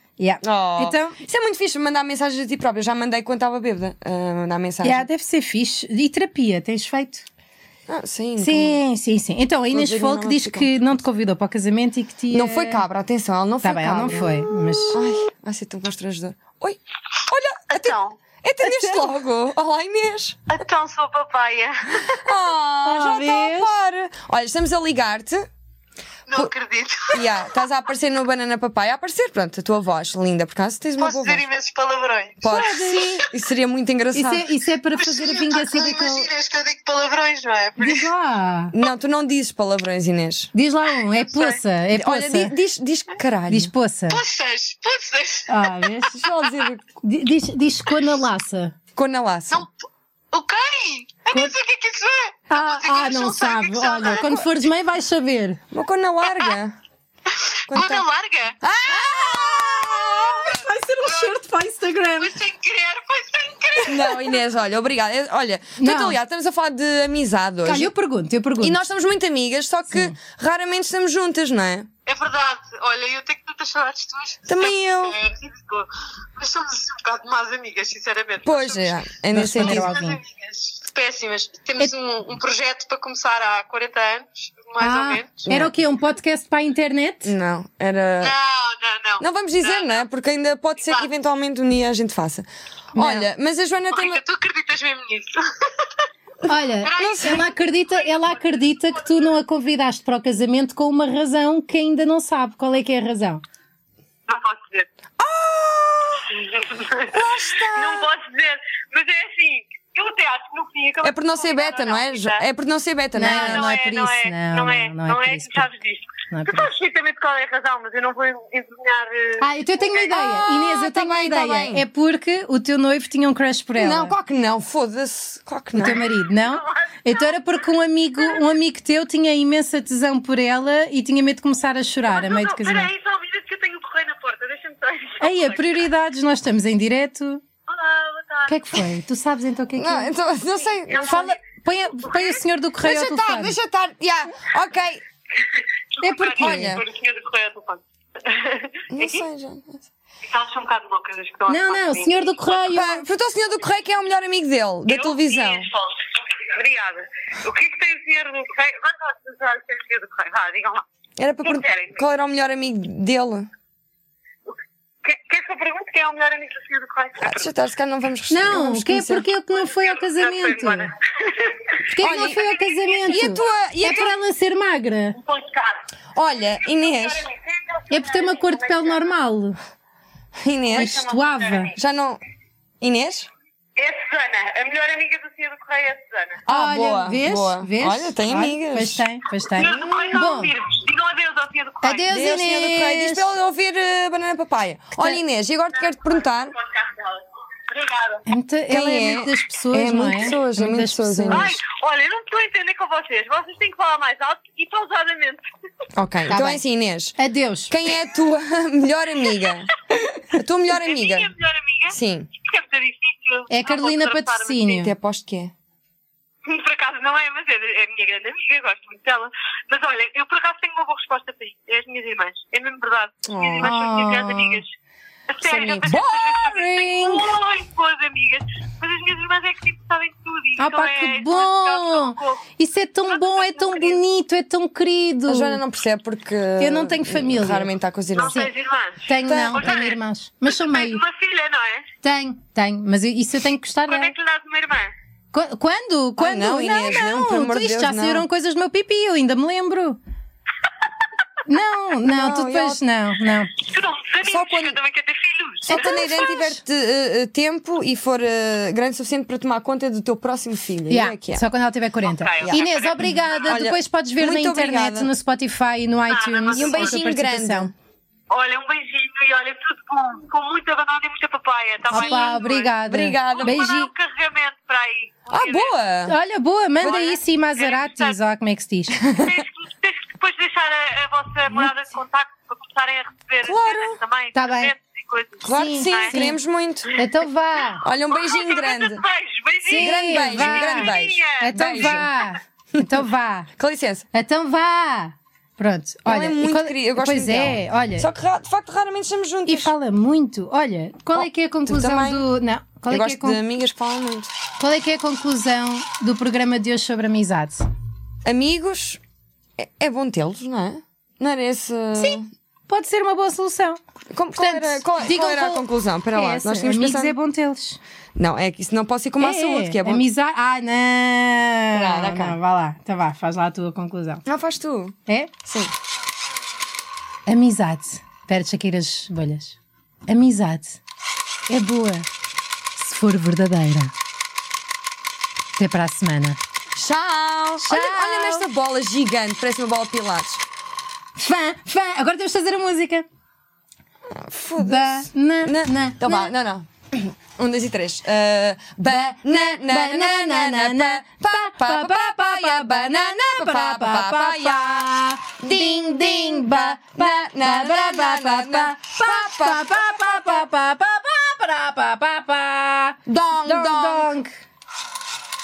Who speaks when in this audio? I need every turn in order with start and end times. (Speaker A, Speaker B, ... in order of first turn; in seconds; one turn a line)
Speaker A: 0.2-1.2
Speaker B: 0.4-5.1
Speaker A: 4.8-7.3
Speaker B: 7.9-8.8
Speaker A: 8.4-12.8
Speaker B: 9.7-10.8
Speaker B: 12.3-20.6
Speaker A: 13.6-15.0
Speaker C: 17.7-18.2
Speaker A: 18.6-19.1
Speaker C: 20.5-22.3
Speaker B: 22.0-25.5
Speaker A: 22.8-23.7
Speaker C: 26.3-27.4
Speaker B: 27.1-31.5
Speaker C: 31.0-32.5
Speaker B: 32.4-34.5
Speaker A: 32.4-33.2
Speaker A: 34.1-36.3
Speaker C: 35.0-38.1
Speaker A: 37.8-38.7
Speaker B: 38.7-40.5
Speaker A: 40.5-42.5
Speaker C: 41.1-41.6
Speaker B: 41.9-43.7
Speaker A: 43.5-44.2
Speaker C: 44.1-46.4
Speaker A: 45.5-46.2
Speaker B: 46.1-46.8
Speaker A: 47.0-48.8
Speaker B: 49.0-49.6
Speaker C: 50.3-54.5
Speaker A: 51.3-51.5
Speaker A: 52.5-55.6
Speaker B: 55.7-56.8
Speaker C: 56.2-56.5
Speaker C: 57.3-58.6
Speaker B: 57.7-58.1
Speaker B: 58.6-60.2
Speaker A: 58.9-62.4
Speaker C: 59.3-61.4
Speaker C: 62.2-64.4
Speaker B: 63.8-67.9
Speaker A: 65.8-66.2
Speaker A: 67.6-68.8
Speaker B: 68.6-71.9
Speaker A: 69.9-70.2
Speaker C: 72.1-85.5
Speaker B: 74.5-75.2
Speaker B: 78.4-79.9
Speaker A: 79.3-80.2
Speaker A: 84.8-87.3
Speaker B: 85.5-85.8
Speaker B: 87.2-88.4
Speaker C: 88.2-90.0
Speaker B: 89.2-94.2
Speaker A: 93.0-93.3
Speaker C: 93.9-96.0
Speaker A: 96.5-103.4
Speaker C: 96.8-99.3
Speaker B: 97.0-97.4
Speaker C: 104.3-104.9
Speaker B: 105.2-106.3
Speaker C: 106.3-112.5
Speaker B: 107.1-108.1
Speaker B: 111.0-113.7
Speaker A: 113.1-115.7
Speaker C: 113.2-120.1
Speaker A: 116.3-116.7
Speaker A: 119.4-124.2
Speaker B: 120.1-121.9
Speaker B: 123.8-126.0
Speaker A: 125.8-132.9
Speaker C: 125.8-127.4
Speaker C: 128.2-128.5
Speaker C: 132.1-135.9
Speaker A: 135.2-137.4
Speaker C: 137.7-138.9
Speaker A: 138.5-140.2
Speaker B: 139.8-141.3
Speaker C: 140.8-141.4
Speaker A: 141.0-143.6
Speaker C: 142.1-142.4
Speaker B: 142.8-145.1
Speaker C: 145.4-149.2
Speaker A: 146.0-146.8
Speaker B: 146.3-146.8
Speaker B: 148.9-149.8
Speaker C: 150.3-152.3
Speaker A: 151.5-153.1
Speaker B: 152.7-155.7
Speaker C: 154.9-160.8
Speaker B: 161.2-163.5
Speaker C: 161.4-162.0
Speaker C: 164.5-167.5
Speaker B: 167.2-169.2
Speaker A: 168.3-170.9
Speaker C: 169.5-173.5
Speaker A: 171.9-175.2
Speaker B: 172.0-172.4
Speaker B: 173.1-174.2
Speaker C: 175.2-175.9
Speaker B: 176.2-177.3
Speaker C: 176.6-179.0
Speaker A: 177.9-179.6
Speaker B: 180.4-181.0
Speaker C: 180.7-181.8
Speaker A: 180.7-181.7
Speaker B: 181.8-182.2
Speaker B: 182.8-183.3
Speaker C: 183.8-186.4
Speaker B: 186.4-189.0
Speaker A: 186.5-190.5
Speaker C: 189.5-192.1
Speaker B: 189.6-190.2
Speaker A: 191.8-193.3
Speaker B: 192.1-196.6
Speaker A: 194.9-195.2
Speaker C: 196.6-197.2
Speaker C: 197.7-198.2
Speaker A: 198.3-201.6
Speaker B: 198.7-201.6
Speaker C: 201.3-205.5
Speaker B: 206.0-207.2
Speaker A: 206.3-206.6
Speaker A: 207.2-207.8
Speaker B: 207.7-209.8
Speaker B: 210.3-211.3
Speaker C: 210.7-214.8
Speaker B: 211.9-212.3
Speaker A: 213.5-214.9
Speaker B: 214.8-215.5
Speaker C: 216.4-224.7
Speaker B: 223.3-223.7
Speaker A: 223.6-224.6
Speaker C: 225.3-232.4
Speaker B: 225.4-226.7
Speaker A: 226.5-227.3
Speaker A: 230.6-235.6
Speaker C: 233.1-234.0
Speaker B: 235.3-238.5
Speaker A: 236.6-237.7
Speaker C: 238.1-241.9
Speaker A: 239.1-241.0
Speaker B: 239.2-239.7
Speaker A: 242.0-244.2
Speaker C: 243.9-244.9
Speaker A: 245.3-250.0
Speaker B: 246.2-248.3
Speaker A: 251.5-253.6
Speaker B: 252.0-252.8
Speaker C: 253.6-256.2
Speaker B: 254.2-254.8
Speaker B: 255.7-261.4
Speaker A: 255.7-256.6
Speaker A: 260.9-267.7
Speaker C: 262.1-263.6
Speaker B: 263.5-265.1
Speaker C: 266.1-267.0
Speaker B: 266.5-267.7
Speaker C: 268.3-272.7
Speaker A: 271.9-273.9
Speaker B: 271.9-273.7
Speaker C: 273.3-275.8
Speaker B: 275.3-276.1
Speaker A: 276.1-279.0
Speaker C: 276.8-278.2
Speaker B: 279.0-279.4
Speaker C: 279.2-286.2
Speaker B: 283.4-284.0
Speaker A: 284.3-284.8
Speaker B: 285.4-286.9
Speaker A: 285.5-286.4
Speaker A: 287.0-287.8
Speaker B: 287.8-289.0
Speaker C: 288.1-292.1
Speaker A: 289.6-293.5
Speaker B: 289.8-292.1
Speaker B: 292.8-293.0
Speaker B: 293.6-294.1
Speaker A: 294.1-298.1
Speaker B: 296.1-299.7
Speaker A: 299.5-303.4
Speaker B: 301.1-302.3
Speaker B: 302.9-304.3
Speaker A: 304.6-307.6
Speaker B: 308.2-309.0
Speaker B: 309.6-312.3
Speaker A: 312.0-313.8
Speaker B: 314.1-317.2
Speaker A: 314.4-317.8
Speaker B: 318.2-320.0
Speaker A: 319.2-324.2
Speaker B: 321.7-322.4
Speaker B: 324.3-325.7
Speaker A: 325.1-325.3
Speaker A: 327.3-330.8
Speaker A: 331.5-332.1
Speaker A: 332.8-333.9
Speaker A: 335.6-336.4
Speaker B: 336.7-340.4
Speaker A: 337.6-338.5
Speaker A: 341.2-343.1
Speaker B: 344.1-360.4
Speaker A: 344.6-346.3
Speaker A: 349.4-364.4
Speaker B: 363.1-364.1